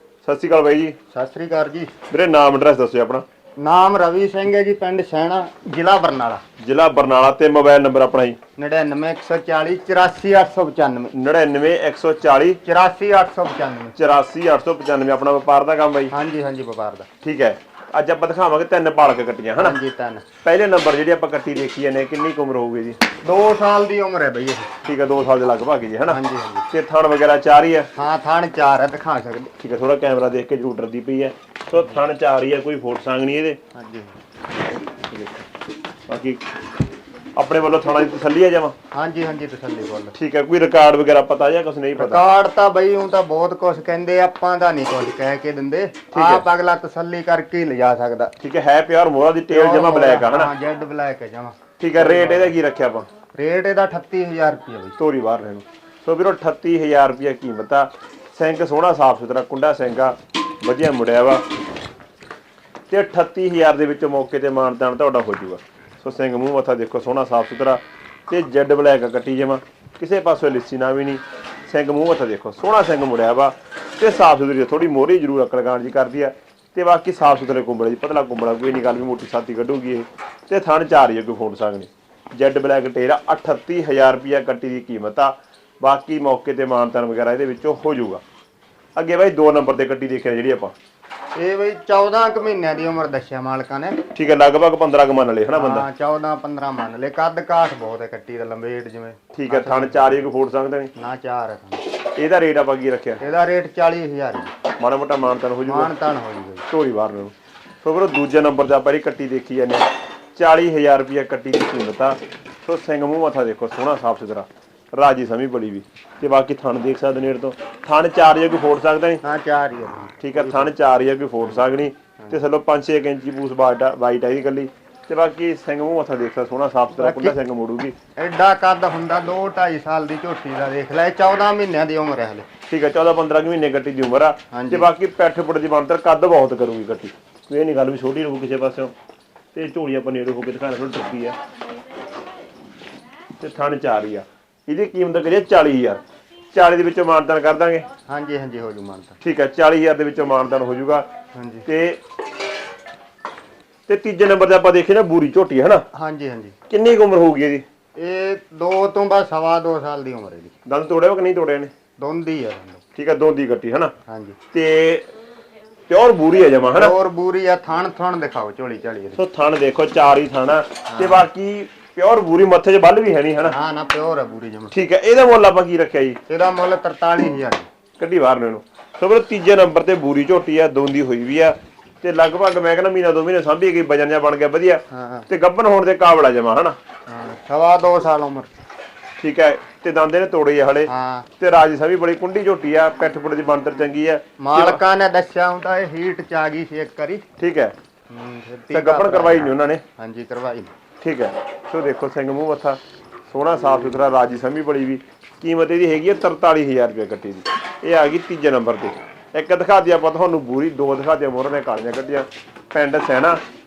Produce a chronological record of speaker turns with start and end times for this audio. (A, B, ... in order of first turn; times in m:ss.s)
0:00.2-0:01.0 A
0:01.1-0:01.9 B
0:02.1-0:03.2 A
0:03.6-0:06.4 B
0:06.6-0:08.4 A
0:08.6-0:11.1 B
0:11.1-0:12.6 A
0:12.6-0:14.0 B
0:14.0-0:16.1 A
0:16.1-0:17.1 B
0:17.2-0:19.8 A
0:19.6-0:20.2 B
0:20.4-0:23.0 A
0:23.2-0:24.7 B
0:24.8-0:26.2 A
0:26.1-0:26.7 B
0:26.7-0:27.9 A
0:28.0-0:29.5 B
0:29.6-0:33.6 A
0:33.7-0:34.1 B
0:35.0-0:35.4 A
0:36.1-0:36.4 A
0:37.4-0:38.7 A
0:38.9-0:40.1 B
0:40.1-0:42.2 A
0:42.0-0:48.3 B
0:46.1-0:46.4 A
0:48.4-0:50.5 A
0:49.5-0:52.6 B
0:51.8-0:53.1 A
0:53.3-0:55.0 B
0:55.0-1:01.4 A
1:02.9-1:28.2 A
1:29.0-1:30.7 A
1:31.4-1:34.0 B
1:34.1-1:35.8 A
1:35.5-1:40.2 B
1:39.3-1:40.9 A
1:41.0-1:41.8 B
1:42.2-1:43.2 A
1:43.2-1:44.5 B
1:44.8-1:45.9 A
1:45.7-1:46.7 B
1:46.7-1:59.2 A
1:59.2-2:00.7 B
2:00.2-2:07.9 A
2:06.9-2:07.4 B
2:08.2-2:12.5 B
2:12.7-2:18.9 A
2:14.5-2:14.9 B
2:19.5-2:21.4 A
2:23.4-2:26.0 A
2:26.5-2:27.8 A
2:28.1-2:29.2 B
2:29.2-2:31.1 A
2:31.3-2:31.7 B
2:31.7-2:32.0 A
2:33.9-2:35.8 A
2:35.9-2:36.6 B
2:36.7-2:37.6 A
2:38.0-2:40.5 B
2:40.6-2:41.7 A
2:42.0-2:42.8 B
2:43.0-2:43.9 A
2:44.1-2:44.4 B
2:44.5-2:45.1 A
2:45.9-2:46.9 A
2:46.8-2:49.2 B
2:49.2-2:53.6 A
2:50.9-2:51.2 B
2:53.5-2:54.7 B
2:54.7-2:56.2 A
2:56.3-2:57.7 B
2:58.0-3:06.8 A
3:04.9-3:05.3 B
3:07.1-3:08.5 B
3:09.2-3:14.8 A
3:10.9-3:11.3 B
3:14.4-3:17.2 B
3:17.4-3:17.7 A
3:18.1-3:20.7 B
3:18.7-3:19.8 A
3:21.0-3:33.4 A